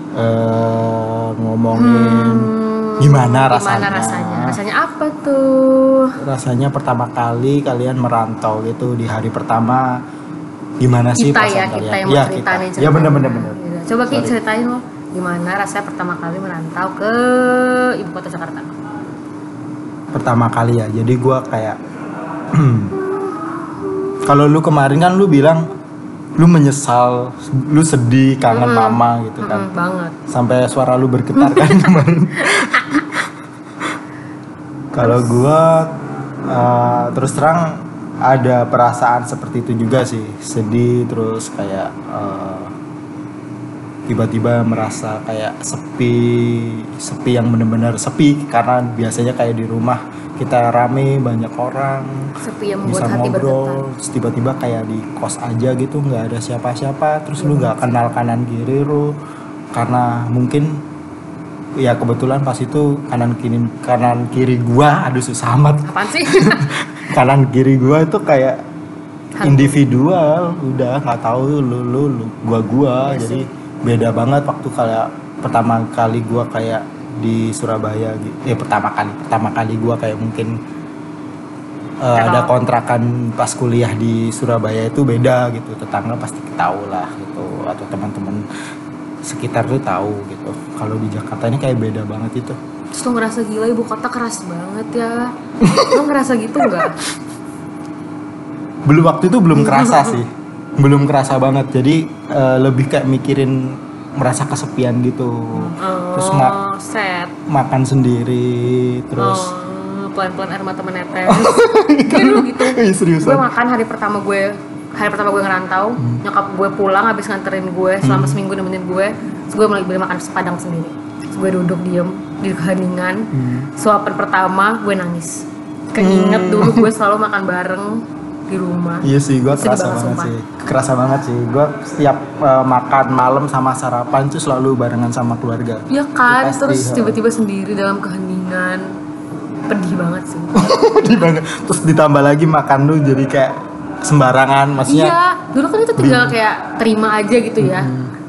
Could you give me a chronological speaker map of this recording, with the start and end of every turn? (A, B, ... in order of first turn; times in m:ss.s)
0:00.2-0:04.6 A
0:01.7-0:06.2 B
0:06.2-0:10.0 A
0:10.8-0:14.4 A
0:11.2-0:18.8 B
0:20.1-0:21.8 A
0:22.6-0:23.0 A
0:24.2-0:25.7 A
0:26.4-0:29.7 A
0:28.5-0:30.2 B
0:30.3-0:33.3 A
0:31.4-0:31.9 B
0:32.4-0:33.2 B
0:34.9-0:36.0 A
0:35.0-0:35.4 B
0:36.5-0:42.7 A
0:44.1-0:52.3 A
0:52.4-0:53.8 B
0:52.8-0:59.2 A
0:57.4-0:58.1 B
0:59.7-1:00.8 A
1:01.8-1:08.6 A
1:05.9-1:06.7 B
1:09.4-1:09.8 B
1:09.4-1:20.5 A
1:13.0-1:13.5 B
1:22.0-1:28.4 A
1:22.2-1:22.5 B
1:29.2-1:32.6 A
1:33.0-1:35.3 B
1:35.6-1:36.0 A
1:35.8-1:37.0 B
1:38.9-1:46.6 A
1:39.5-1:40.2 B
1:45.6-1:47.4 B
1:47.5-1:49.5 A
1:49.2-1:51.5 B
1:51.3-1:53.5 A
1:52.0-2:10.3 B
1:58.0-1:58.4 A
2:03.3-2:03.7 A
2:06.0-2:06.9 A
2:09.0-2:17.2 A
2:15.9-2:19.0 B
2:19.7-2:20.6 B
2:20.5-2:25.2 A
2:24.8-2:27.9 B
2:26.0-2:26.4 A
2:27.6-2:28.1 A